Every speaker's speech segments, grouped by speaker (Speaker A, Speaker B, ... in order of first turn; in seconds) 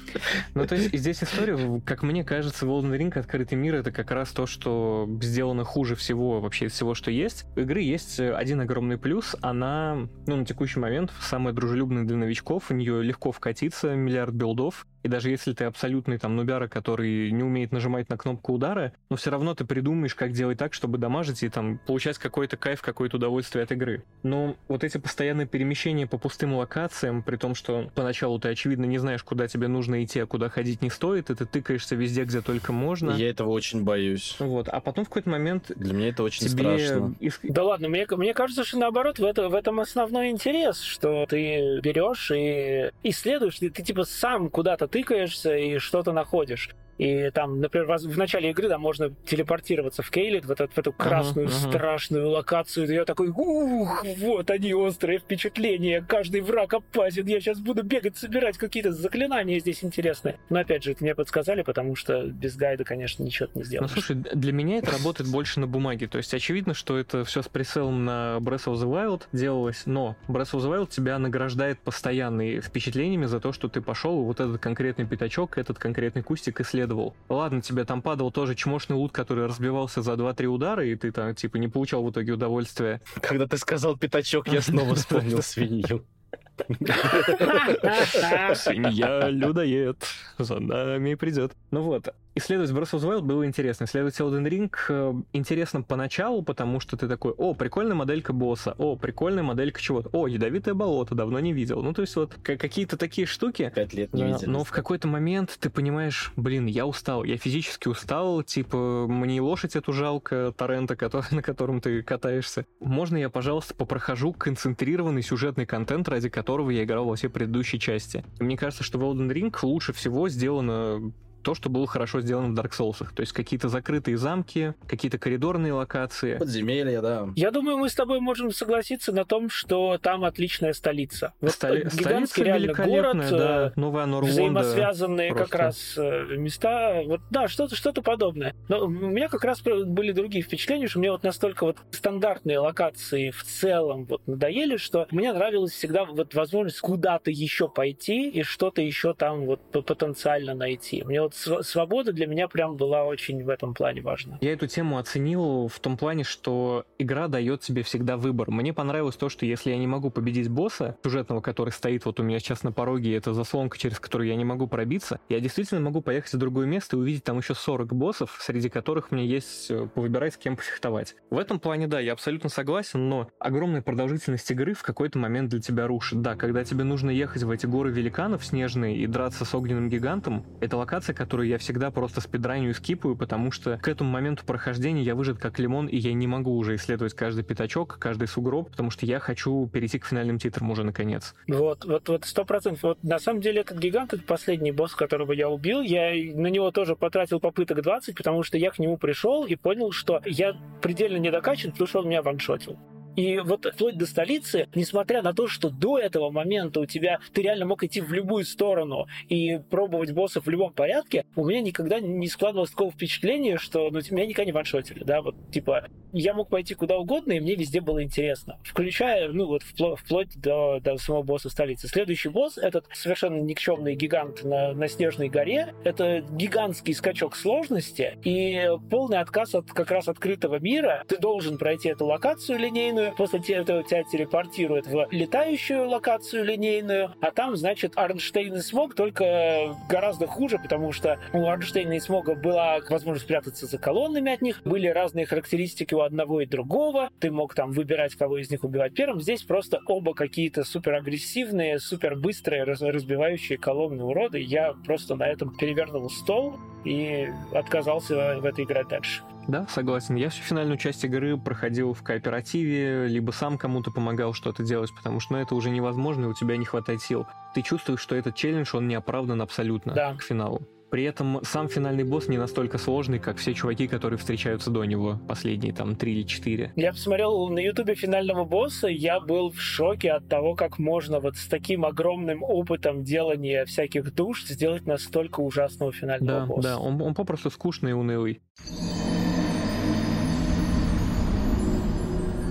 Speaker A: 0.3-33.2, 34.4-35.8, 36.4-37.5, 51.0-51.8, 63.8-83.0, 84.5-85.4, 87.1-126.4, 131.5-135.7, 154.4-191.3, 259.5-276.7, 286.2-288.4
Speaker B: 33.0-34.4, 35.8-37.1, 83.1-86.0, 86.7-88.8, 103.7-104.8, 126.4-127.4
Speaker C: 37.5-64.0, 87.5-88.5, 127.3-154.4, 191.5-259.2, 269.9-270.2, 276.8-286.8